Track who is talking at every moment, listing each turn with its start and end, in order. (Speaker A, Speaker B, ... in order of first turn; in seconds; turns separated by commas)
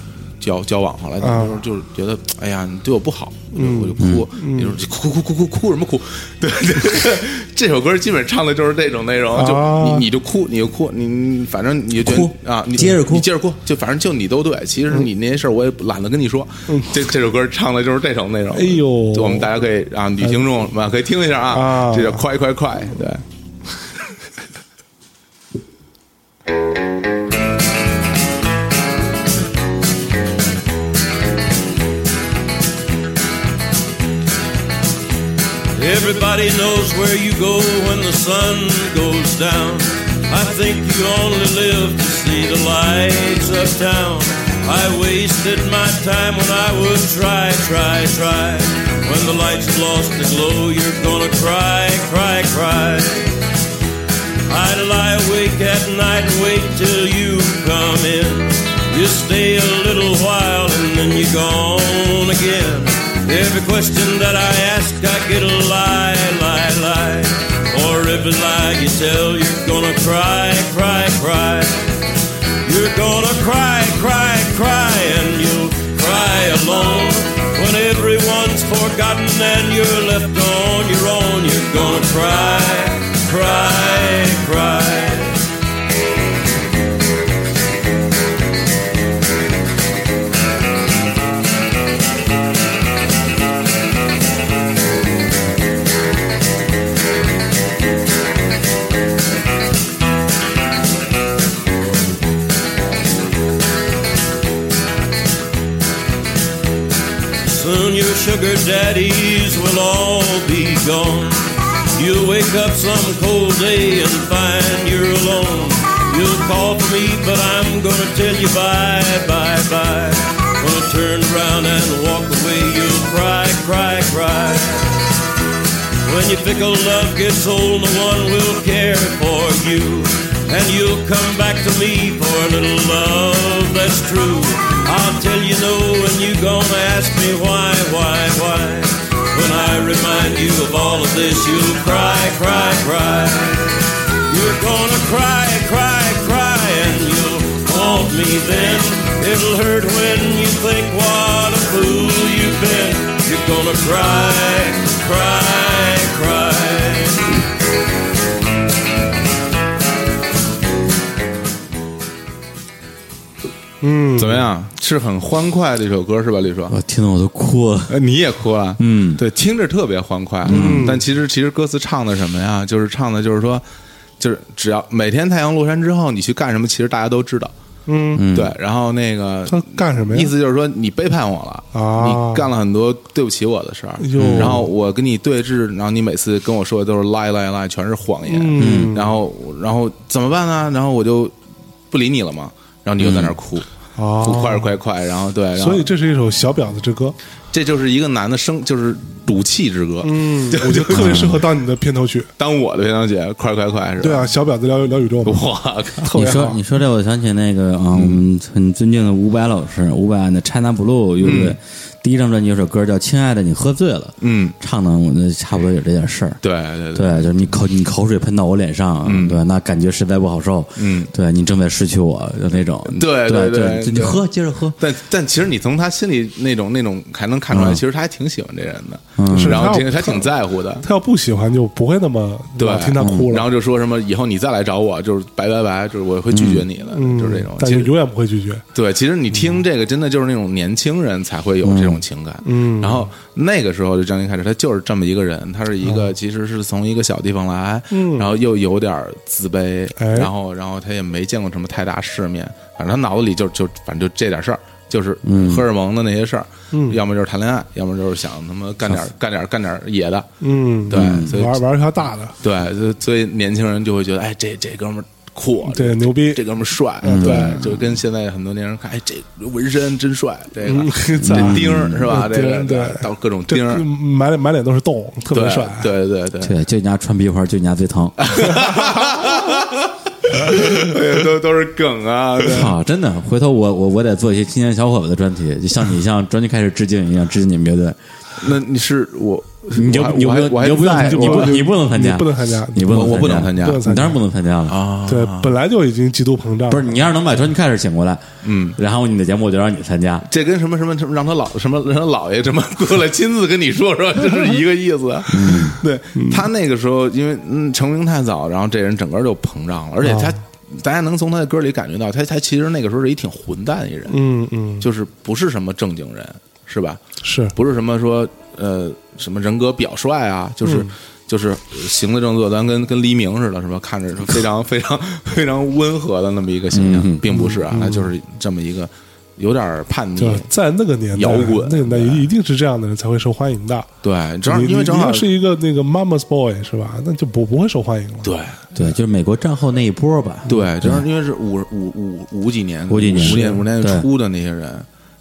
Speaker A: 0.4-23.2, Speaker B: 1.2-1.6, Speaker B: 3.5-4.8, Speaker C: 4.0-4.3, Speaker B: 9.3-10.1, Speaker C: 12.0-13.3, Speaker B: 18.5-19.6, Speaker B: 21.5-22.2, Speaker D: 35.7-53.4, Speaker D: 54.5-71.8, Speaker D: 72.6-85.4, Speaker D: 107.4-125.0, Speaker D: 126.0-157.3, Speaker B: 163.8-164.5, Speaker A: 164.2-166.7, Speaker C: 166.7-168.0, Speaker A: 167.9-173.6, Speaker C: 168.8-169.2, Speaker C: 170.4-170.9, Speaker B: 170.4-171.0, Speaker A: 174.2-177.5, Speaker B: 177.9-178.2, Speaker C: 178.1-178.5, Speaker A: 178.3-191.3, Speaker B: 179.5-180.3, Speaker B: 181.7-182.5, Speaker B: 184.0-184.7, Speaker C: 184.2-184.6, Speaker B: 188.2-189.2, Speaker C: 188.6-188.9, Speaker A: 191.9-193.7, Speaker C: 193.0-193.4, Speaker B: 193.9-194.7, Speaker A: 194.2-195.9, Speaker B: 195.6-197.2, Speaker A: 197.5-201.3, Speaker B: 200.0-202.3, Speaker C: 200.9-201.4, Speaker A: 202.4-204.3, Speaker B: 204.0-205.5, Speaker A: 205.2-206.2, Speaker B: 206.0-206.6, Speaker C: 206.1-216.4, Speaker A: 207.9-208.2, Speaker A: 211.2-211.6, Speaker A: 214.2-214.6, Speaker A: 216.4-217.6, Speaker C: 216.9-224.8, Speaker A: 219.0-219.4, Speaker A: 220.8-221.1, Speaker A: 222.9-224.2, Speaker A: 224.8-230.8, Speaker C: 227.5-227.8, Speaker C: 229.2-229.7, Speaker B: 229.3-230.3, Speaker B: 230.8-233.5, Speaker A: 232.6-237.9, Speaker C: 233.0-233.3, Speaker C: 236.3-236.7, Speaker B: 236.9-238.6, Speaker A: 238.7-260.3, Speaker C: 241.6-242.0, Speaker B: 242.4-243.1, Speaker B: 245.8-246.1, Speaker B: 247.9-248.3, Speaker B: 249.9-250.3, Speaker C: 255.2-255.6, Speaker B: 256.7-257.0, Speaker B: 260.4-262.3, Speaker A: 260.9-261.6, Speaker C: 260.9-261.3, Speaker A: 262.4-273.8, Speaker B: 265.7-266.4, Speaker B: 267.0-267.7, Speaker C: 267.1-267.7, Speaker B: 270.6-275.9, Speaker C: 271.2-272.0, Speaker A: 275.3-276.6, Speaker C: 276.4-278.3, Speaker A: 278.2-282.7, Speaker C: 282.4-288.0, Speaker A: 288.4-291.7, Speaker C: 289.7-294.8, Speaker B: 291.0-294.2, Speaker A: 292.9-293.9, Speaker A: 294.7-295.6, Speaker B: 295.1-297.0, Speaker C: 296.7-298.2, Speaker A: 298.4-298.8, Speaker C: 298.8-300.2, Speaker A: 300.3-314.2, Speaker C: 305.3-305.8, Speaker B: 306.1-306.4, Speaker B: 310.0-310.4, Speaker B: 314.1-314.9, Speaker A: 314.8-317.0, Speaker B: 317.2-317.5, Speaker A: 317.5-330.5, Speaker B: 320.6-320.9, Speaker C: 326.7-327.2, Speaker B: 327.3-328.1, Speaker B: 330.2-333.9, Speaker A: 331.1-332.3, Speaker A: 334.0-335.3, Speaker B: 334.4-338.3, Speaker A: 338.2-338.6, Speaker C: 338.7-341.0, Speaker A: 340.5-344.9, Speaker C: 342.9-344.1, Speaker B: 343.2-343.6